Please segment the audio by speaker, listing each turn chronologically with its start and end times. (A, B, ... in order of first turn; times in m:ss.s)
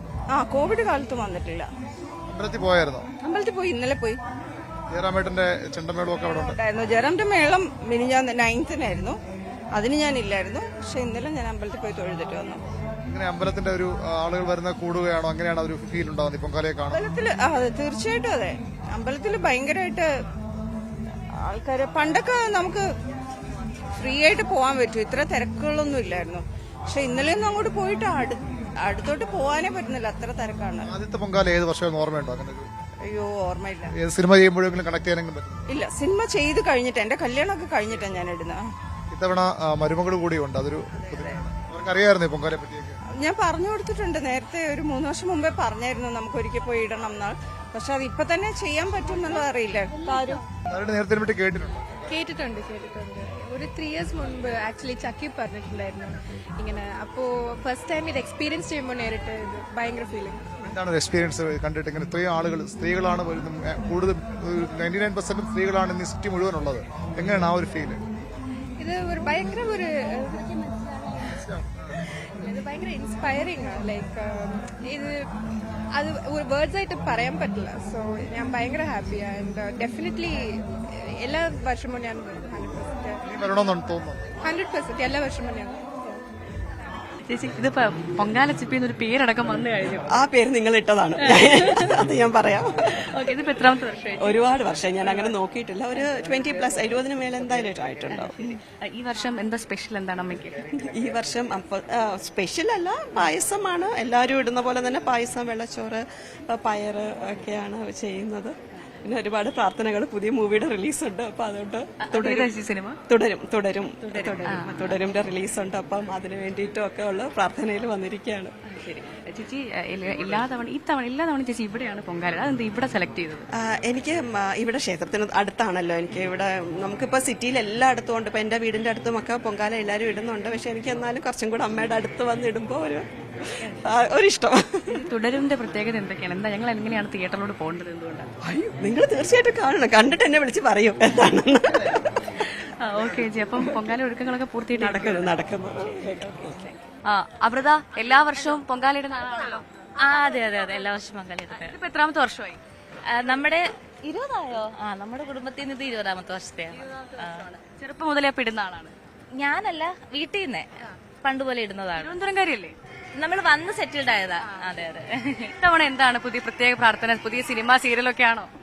0:00.3-0:01.7 A
0:00.8-0:01.2 B
0:02.3-0:03.0 C
0:03.3-0:04.2 A
0:04.9-0:06.6 C
0:06.6-0:09.2 A
0:09.8-0:12.6 A
0:10.9-0:12.5 B
0:13.1-0:17.0 C
0:17.1-0:20.0 A
0:21.5-0:22.8 A
0:24.0-0:30.8 A
0:30.8-0:32.7 C
0:33.1-0:33.8 A
0:33.9-0:35.6 C
0:35.8-0:38.6 A
0:37.6-0:38.1 B
0:39.1-0:42.9 C
0:43.2-0:50.3 A
0:43.4-0:45.0 B
0:45.8-0:46.9 B
0:48.3-0:49.0 B
0:50.7-0:52.0 C
0:52.1-1:00.4 D
1:00.6-1:08.0 C
1:08.8-1:10.7 D
1:11.4-1:11.7 C
1:12.4-1:15.1 D
1:15.9-1:20.4 D
1:21.2-1:23.2 D
1:23.2-1:24.3 C
1:24.4-1:26.2 D
1:27.3-1:30.0 E
1:30.1-1:33.0 B
1:31.2-1:31.8 E
1:33.1-1:34.4 E
1:34.2-1:38.5 B
1:38.5-1:40.5 E
1:40.9-1:52.5 B
1:52.0-1:53.0 E
1:53.1-1:58.5 B
1:54.4-1:54.7 E
1:58.8-2:03.4 E
2:03.6-2:14.8 B
2:15.0-2:18.3 E
2:18.4-2:22.2 B
2:22.8-2:25.3 E
2:24.7-2:26.7 B
2:27.1-2:29.6 E
2:30.0-2:31.8 F
2:31.5-2:32.6 E
2:33.1-2:37.4 F
2:36.8-2:37.1 E
2:37.6-2:38.9 E
2:39.3-2:40.7 F
2:41.2-2:42.2 F
2:42.0-2:42.7 E
2:43.2-2:45.5 F
2:45.6-2:48.5 E